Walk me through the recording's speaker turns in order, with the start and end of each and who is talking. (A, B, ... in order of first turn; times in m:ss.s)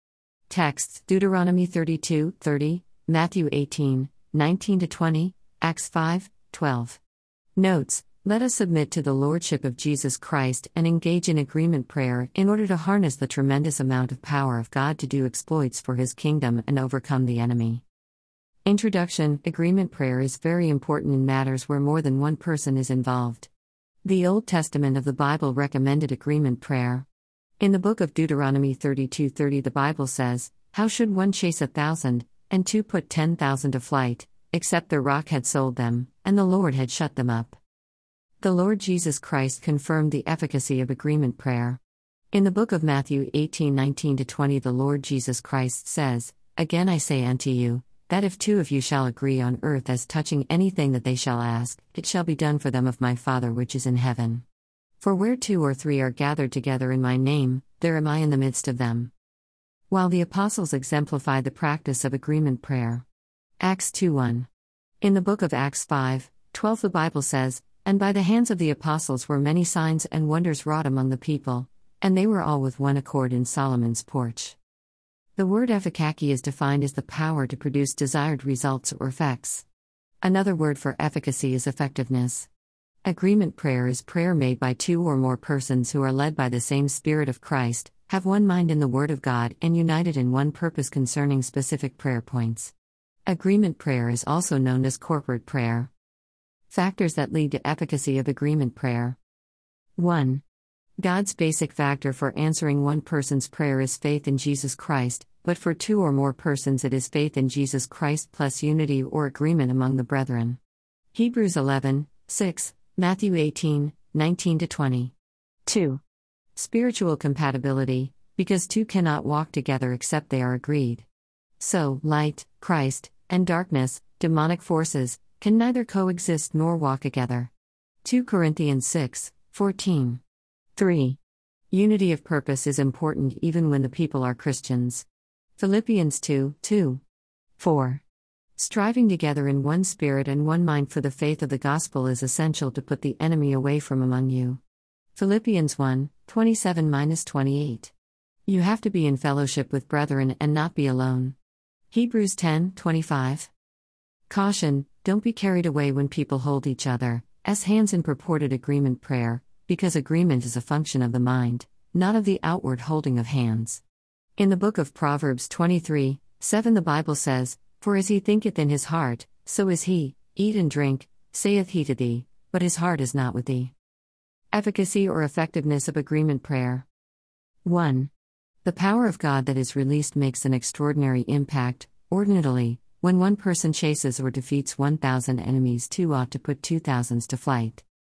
0:00.5-0:07.0 A
0:07.6-0:17.8 A
0:18.6-0:23.5 A
0:24.0-0:27.1 A
0:27.6-0:37.6 A
0:38.4-0:41.8 A
0:42.3-0:54.4 A
0:55.0-0:59.1 A
0:59.9-1:03.0 A
1:03.6-1:04.5 A
1:05.0-1:14.6 A
1:15.4-1:19.6 A
1:20.2-1:22.5 A
1:23.0-1:32.7 A
1:33.3-1:35.9 A
1:36.7-1:39.2 A
1:40.0-1:40.4 A
1:41.0-1:50.6 A
1:51.1-1:55.1 A
1:55.7-1:56.0 A
1:56.6-2:01.1 A
2:01.6-2:07.5 A
2:08.0-2:10.2 A
2:10.8-2:11.2 A
2:11.7-2:15.1 A
2:15.6-2:17.0 A
2:17.6-2:18.0 A
2:18.6-2:24.6 A
2:25.1-2:27.9 A
2:28.5-2:31.4 A
2:31.9-2:33.5 A
2:34.3-2:43.8 A
2:44.4-2:53.7 A
2:54.5-2:56.8 A
2:57.6-2:58.1 A
2:58.6-3:07.8 A